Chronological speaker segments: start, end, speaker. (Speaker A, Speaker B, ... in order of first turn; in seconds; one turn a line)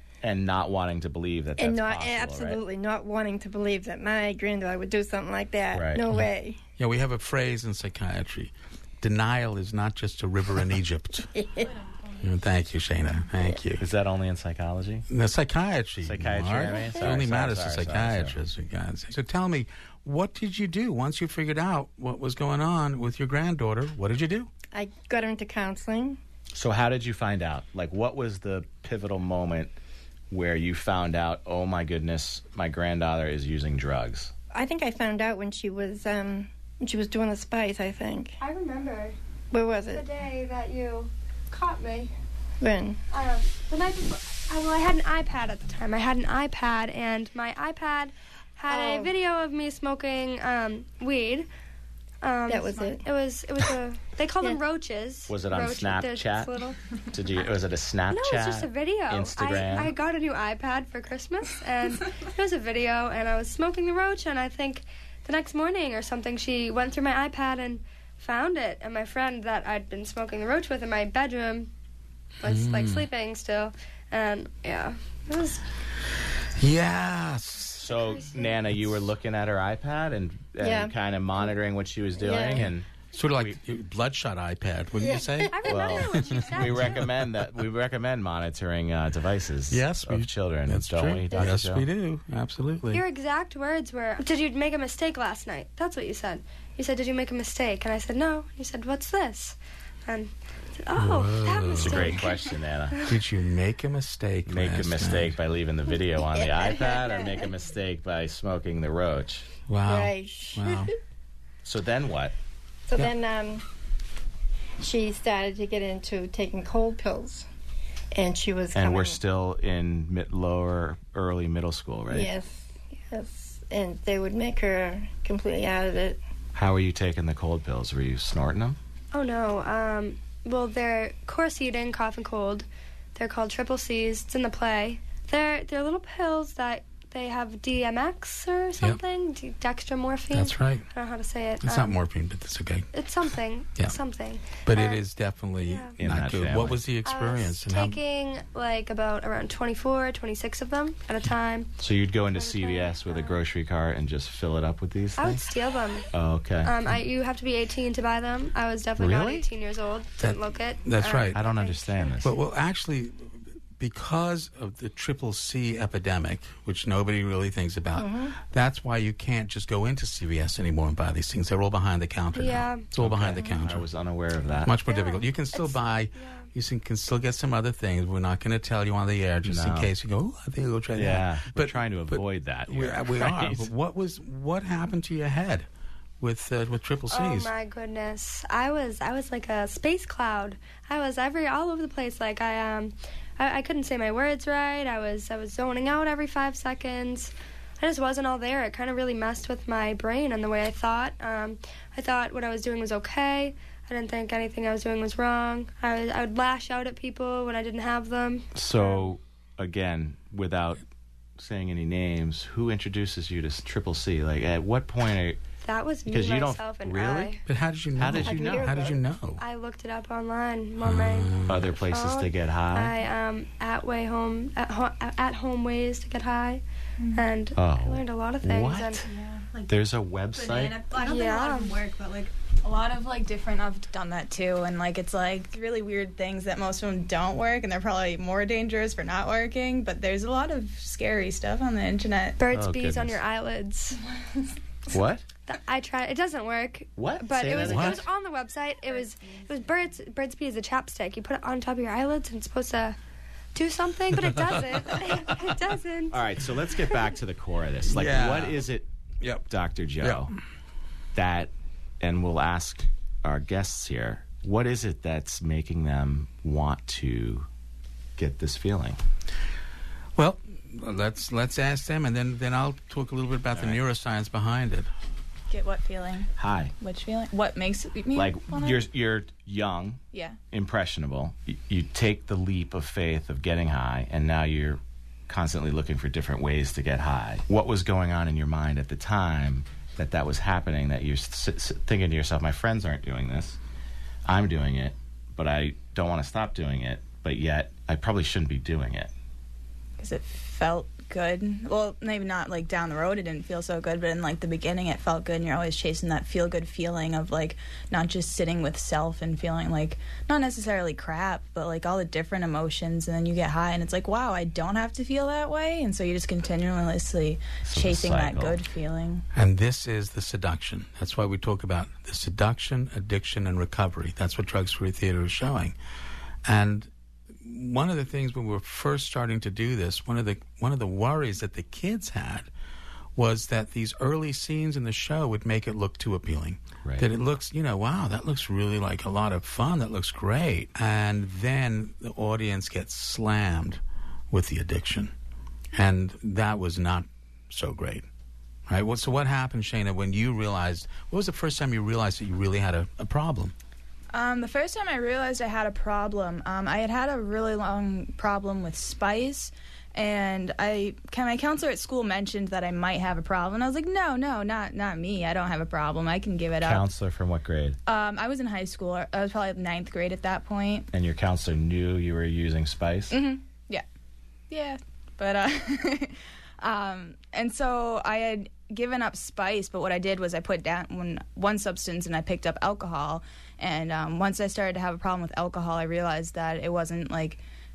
Speaker A: 0.2-2.6
Speaker B: 1.6-6.6
Speaker A: 5.7-6.0
Speaker C: 6.8-11.3
Speaker B: 11.3-11.7
Speaker C: 12.2-13.8
Speaker A: 13.8-15.1
Speaker C: 15.1-24.5
Speaker A: 16.0-18.4
Speaker B: 24.7-26.2
Speaker A: 26.5-29.7
Speaker A: 30.3-34.3
Speaker B: 34.5-38.4
Speaker D: 38.4-39.1
Speaker B: 39.5-40.0
Speaker D: 39.9-42.1
Speaker B: 42.6-43.0
Speaker D: 43.1-51.5
Speaker B: 48.7-49.1
Speaker D: 52.2-56.8
Speaker B: 52.5-53.0
Speaker A: 55.3-56.5
Speaker A: 57.1-59.9
Speaker D: 58.1-71.7
Speaker D: 72.4-75.6
Speaker C: 72.4-73.1
Speaker C: 76.5-77.9
Speaker A: 77.8-83.6
Speaker D: 78.1-78.5
Speaker B: 80.6-81.5
Speaker B: 82.2-82.7
Speaker C: 83.1-87.1
Speaker B: 85.0-85.6
Speaker D: 85.5-87.1
Speaker A: 85.7-91.8
Speaker C: 89.7-93.0
Speaker D: 92.9-103.2
Speaker C: 100.9-102.2
Speaker A: 101.8-103.0
Speaker C: 103.0-105.4
Speaker A: 104.5-109.5
Speaker B: 106.2-107.5
Speaker C: 109.7-110.9
Speaker B: 109.8-110.9
Speaker A: 111.6-112.3
Speaker B: 112.9-113.6
Speaker B: 114.8-117.5
Speaker B: 118.1-119.2
Speaker A: 118.7-122.3
Speaker B: 122.1-126.2
Speaker A: 126.5-128.8
Speaker D: 129.1-141.9
Speaker C: 140.3-140.8
Speaker C: 141.6-142.9
Speaker D: 142.9-145.0
Speaker C: 144.6-148.0
Speaker D: 145.6-145.9
Speaker A: 146.0-146.8
Speaker D: 147.0-151.7
Speaker A: 151.8-155.5
Speaker D: 152.3-153.4
Speaker D: 155.2-156.1
Speaker A: 156.1-156.9
Speaker D: 156.6-162.2
Speaker A: 159.0-159.4
Speaker C: 160.2-161.4
Speaker A: 161.3-162.3
Speaker C: 162.2-173.9
Speaker B: 167.9-168.4
Speaker D: 172.3-172.8
Speaker A: 173.0-174.7
Speaker C: 174.6-185.7
Speaker D: 174.8-176.5
Speaker A: 179.4-179.9
Speaker A: 180.9-183.7
Speaker C: 186.2-187.5
Speaker D: 187.1-209.1
Speaker A: 208.5-210.8
Speaker A: 211.4-215.4
Speaker D: 215.6-217.4
Speaker A: 216.1-217.3
Speaker C: 217.5-219.4
Speaker A: 218.0-218.9
Speaker B: 218.2-219.0
Speaker D: 219.4-221.3
Speaker C: 220.8-221.7
Speaker A: 221.4-222.9
Speaker D: 221.9-226.6
Speaker D: 227.1-229.1
Speaker A: 227.6-229.0
Speaker E: 229.1-229.7
Speaker A: 229.7-230.8
Speaker E: 230.3-242.4
Speaker D: 230.9-231.7
Speaker D: 242.4-244.0
Speaker A: 242.5-243.2
Speaker A: 244.9-245.2
Speaker D: 245.5-253.0
Speaker A: 247.0-248.0
Speaker C: 247.6-248.0
Speaker D: 253.5-256.2
Speaker C: 254.2-255.2
Speaker A: 256.1-258.9
Speaker C: 257.9-258.6
Speaker C: 259.2-259.5
Speaker A: 259.5-260.3
Speaker C: 260.0-260.3
Speaker A: 261.1-267.5
Speaker A: 268.2-269.0
Speaker C: 270.1-274.9
Speaker A: 273.5-273.8
Speaker E: 275.5-276.3
Speaker A: 276.4-276.7
Speaker E: 276.8-278.8
Speaker A: 278.1-293.6
Speaker A: 294.2-299.1
Speaker E: 300.0-319.2
Speaker A: 317.6-318.6
Speaker C: 319.3-325.7
Speaker C: 326.4-332.5
Speaker C: 333.1-345.1
Speaker C: 345.7-348.1
Speaker C: 348.7-353.5
Speaker E: 354.1-366.9
Speaker A: 366.6-367.8
Speaker E: 367.9-370.9
Speaker A: 370.9-373.1
Speaker E: 373.1-373.8
Speaker E: 374.5-387.4